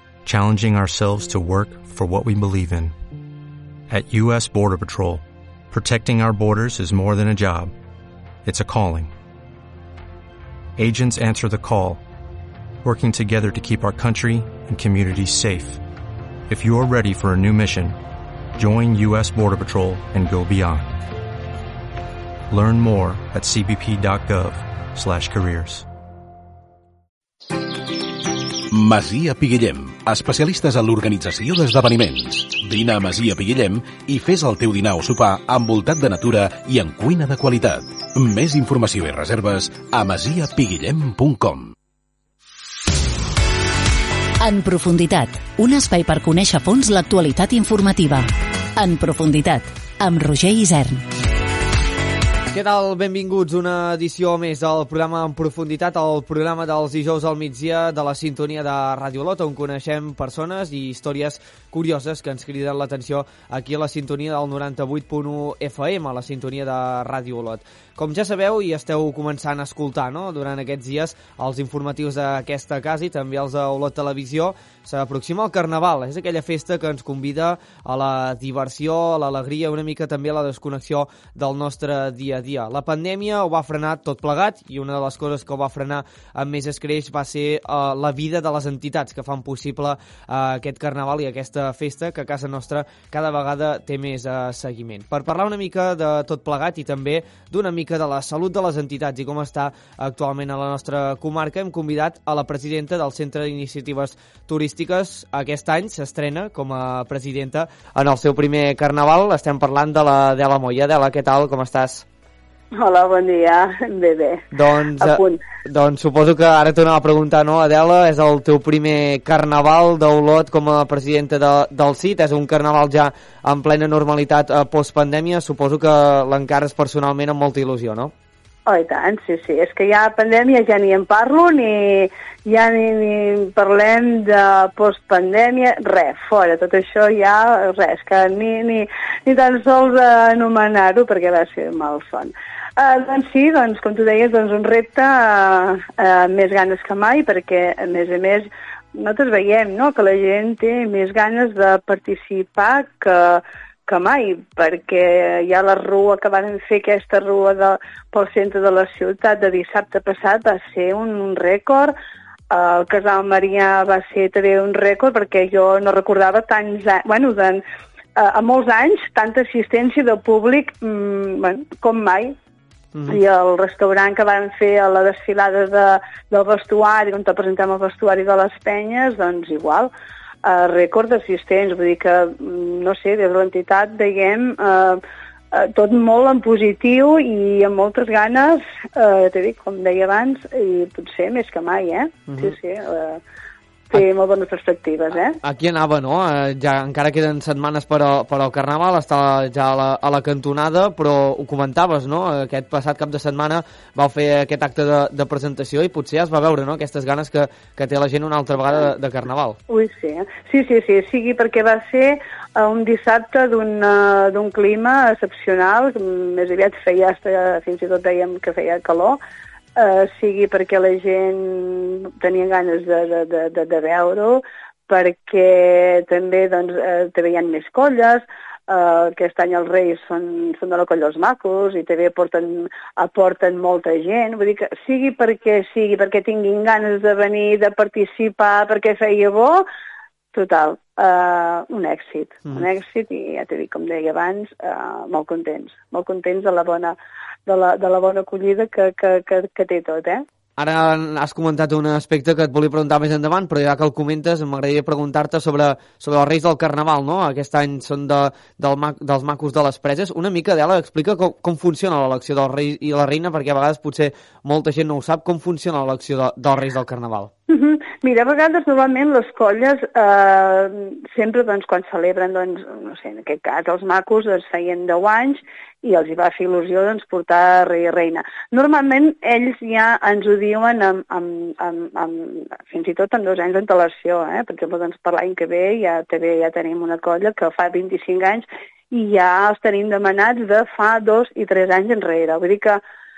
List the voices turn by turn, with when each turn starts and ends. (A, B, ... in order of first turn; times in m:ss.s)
0:00.2-0:02.9 A
0:03.9-0:07.7 A
0:08.4-0:09.1 A
0:10.8-0:12.0 A
0:12.8-0:15.8 A
0:16.5-0:18.0 A
0:18.6-0:21.0 A
0:22.5-0:25.8 A
0:28.7-0:41.7 B
0:44.4-0:48.2 C
0:48.8-0:51.0 C
0:52.5-1:52.0 D
1:52.7-1:55.4 E
1:54.5-2:08.1 D
2:08.6-2:41.9 E
2:42.5-2:47.6 E
2:48.2-2:52.3 E
2:53.1-2:59.9 E
3:00.4-3:05.0 E
3:05.5-3:13.2 E
3:12.3-3:12.5 D
3:13.9-3:15.4 E
3:15.3-3:29.6 D
3:29.7-3:39.2 E
3:39.8-3:59.6 E
4:00.3-4:10.2 E
4:10.6-4:27.3 D
4:27.5-4:52.8 E